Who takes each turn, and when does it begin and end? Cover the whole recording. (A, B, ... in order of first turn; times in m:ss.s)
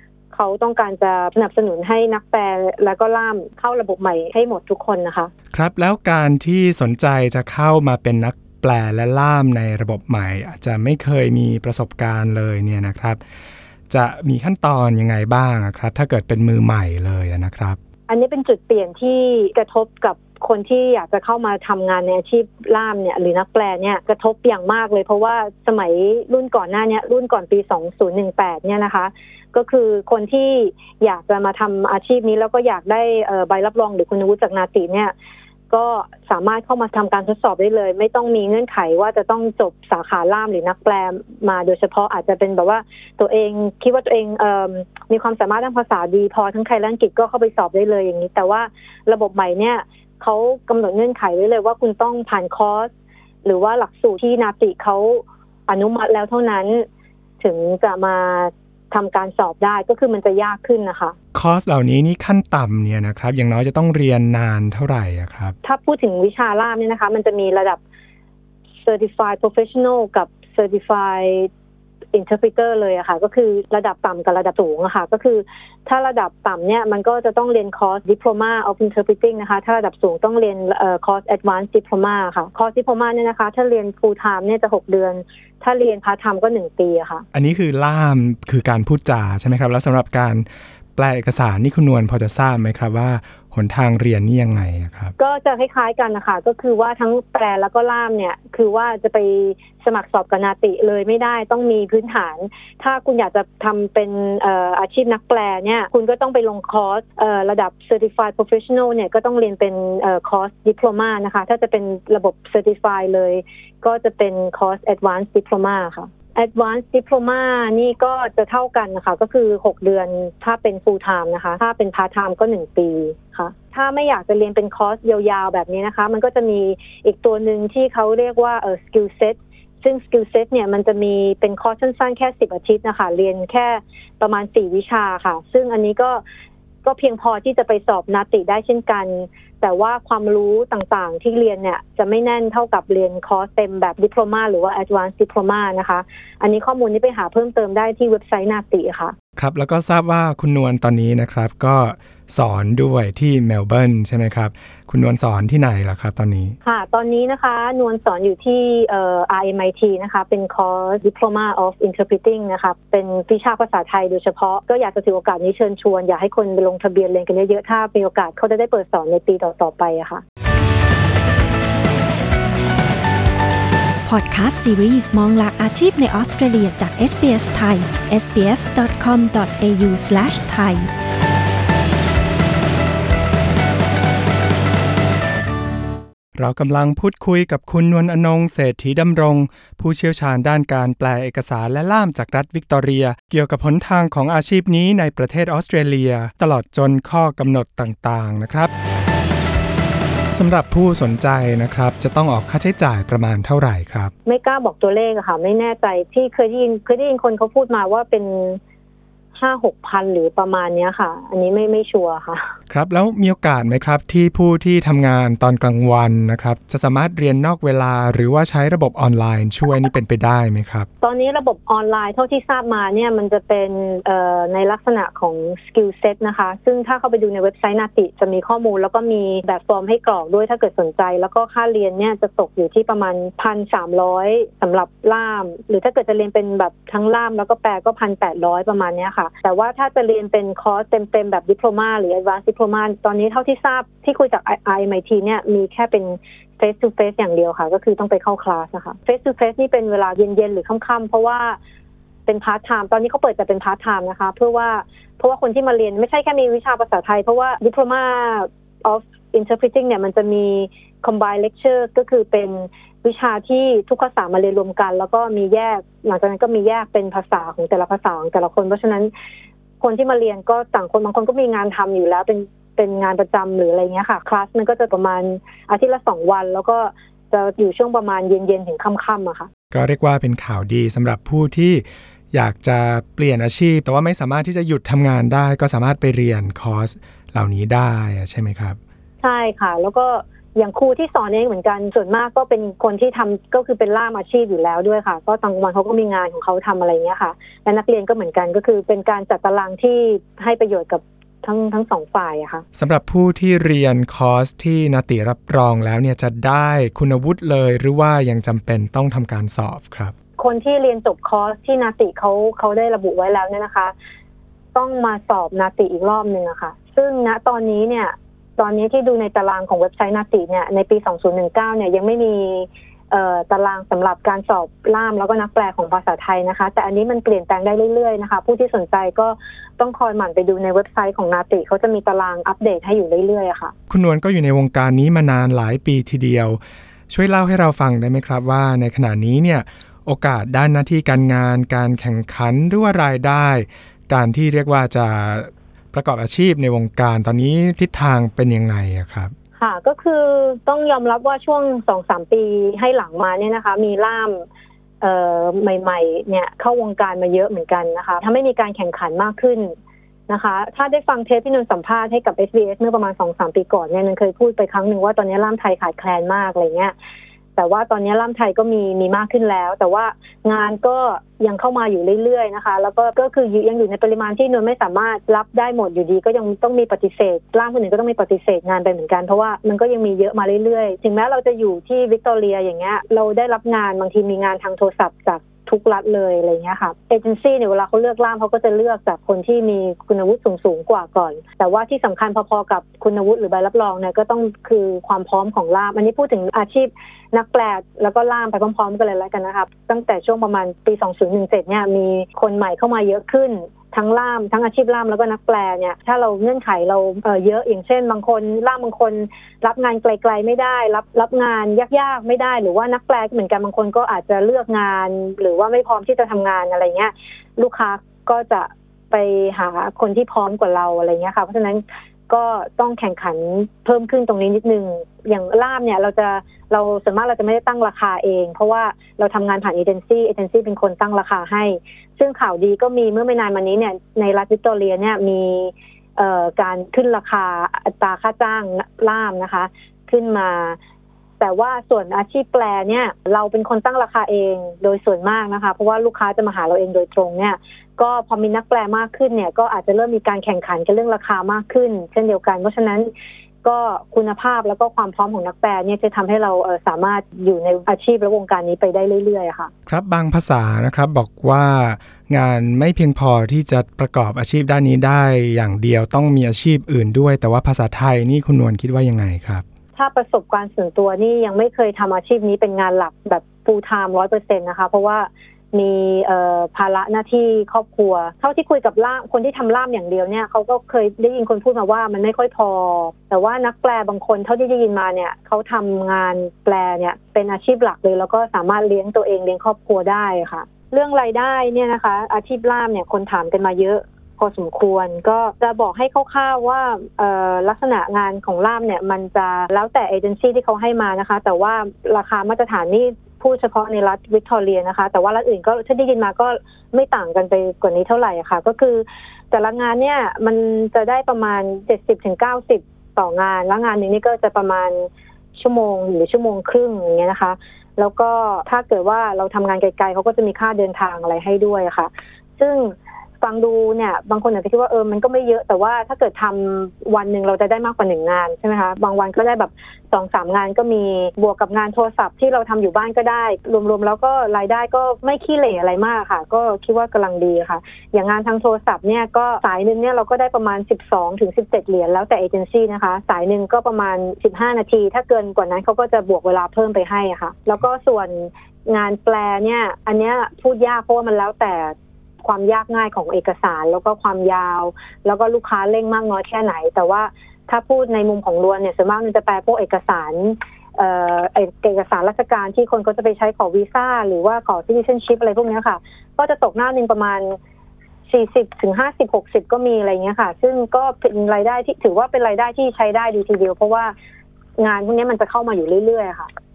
0:00.3-0:05.3 A
0:05.5-0:13.2 B
0:13.9-0:17.8 B
0:18.1-0:35.1 A
0:35.7-0:52.9 A
0:53.4-0:56.9 A
0:57.4-1:01.2 A
1:01.3-1:05.6 B
1:05.6-1:07.8 A
1:08.8-1:11.5 A
1:12.1-1:27.2 A
1:27.3-1:35.1 B
1:35.2-2:16.2 A
2:16.8-2:29.1 A
2:29.4-2:36.5 B
2:36.6-2:50.2 A
2:54.0-3:00.9 C
3:06.4-3:18.7 B
3:20.3-3:24.1 B
3:24.2-3:28.6 A
3:29.3-3:32.5 A
3:32.7-3:40.9 B
3:41.0-4:11.6 A
4:12.2-4:29.1 A
4:29.8-4:39.5 A
4:39.7-4:48.8 B
4:49.2-5:02.6 A
5:02.7-5:10.1 B
5:10.4-5:13.9 A
5:14.7-5:33.7 A
5:33.9-5:49.3 B
5:49.6-5:54.4 A
5:55.0-5:59.7 A
6:00.3-6:06.9 A
6:07.6-7:20.8 A
7:21.4-7:33.1 A
7:33.6-7:39.7 A
7:39.9-7:49.6 B
7:49.9-9:27.6 A
9:28.3-9:34.1 A
9:34.8-9:36.5 A